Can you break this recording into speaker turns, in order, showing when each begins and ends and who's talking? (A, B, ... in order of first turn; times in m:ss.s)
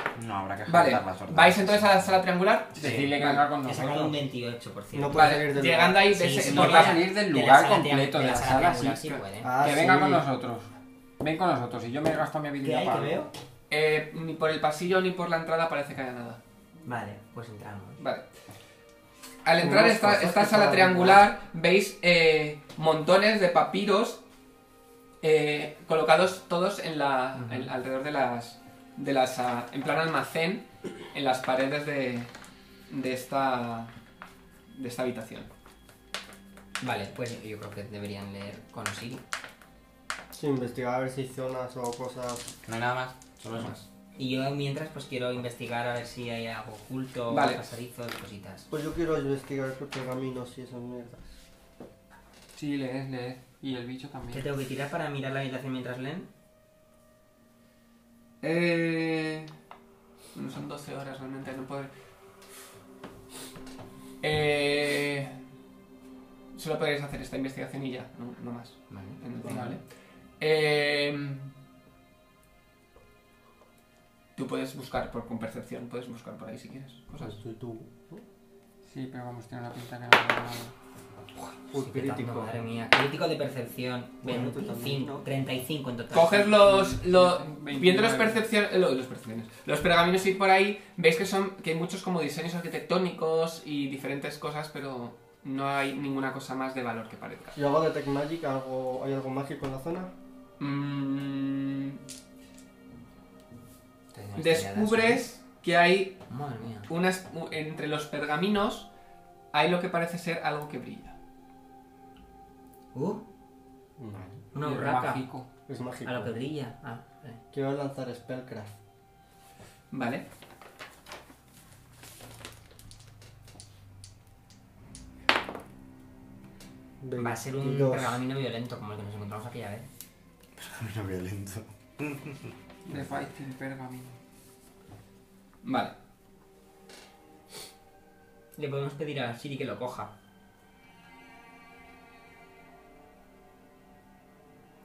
0:00.1-0:02.2 A
0:00.7-0:03.4 B
0:02.7-0:03.2 A
0:02.8-0:04.2 C
0:03.6-0:05.3 D
0:04.9-0:06.1 E
0:05.1-0:07.0 B
0:06.1-0:09.5 D
0:06.3-0:10.7 C
0:09.4-0:10.2 E
0:11.2-0:13.2 C
0:12.6-0:13.3 D
0:13.7-0:16.4 B
0:16.8-0:18.0 D
0:18.0-0:18.2 B
0:19.4-0:24.2 B
0:19.6-0:21.3 E
0:25.2-0:32.3 B
0:27.4-0:27.7 D
0:32.9-0:33.9 B
0:34.7-0:35.5 B
0:36.8-0:39.2 D
0:40.3-0:42.5 E
0:42.6-0:43.8 A
0:44.2-0:48.7 D
0:47.3-0:47.6 B
0:48.7-0:51.3 E
0:52.5-0:54.5 C
0:54.3-0:56.3 D
0:58.4-0:59.5 B
1:00.3-1:01.9 B
1:04.2-1:05.4 B
1:06.5-1:09.8 B
1:08.9-1:09.2 D
1:09.5-1:09.8 C
1:10.4-1:11.5 B
1:14.4-1:17.4 B
1:17.2-1:18.2 E
1:18.9-1:20.7 C
1:21.7-1:22.6 E
1:21.7-1:26.6 D
1:24.2-1:25.3 E
1:26.1-1:37.6 B
1:26.5-1:28.4 C
1:37.6-1:40.1 E
1:40.6-1:42.0 B
1:44.1-1:45.2 D
1:44.4-1:46.2 B
1:46.3-1:46.9 D
1:46.9-1:48.9 B
1:49.5-1:51.2 B
1:52.9-1:53.2 D
1:54.0-1:54.4 E
1:54.5-1:55.2 D
1:54.6-1:55.5 C
1:55.7-1:56.3 E
1:56.0-1:57.4 D
1:57.5-1:58.7 E
1:59.9-2:00.2 B
2:07.0-2:08.2 E
2:07.2-2:09.9 D
2:10.6-2:12.5 A
2:12.8-2:14.2 C
2:15.6-2:15.9 B
2:18.6-2:20.1 D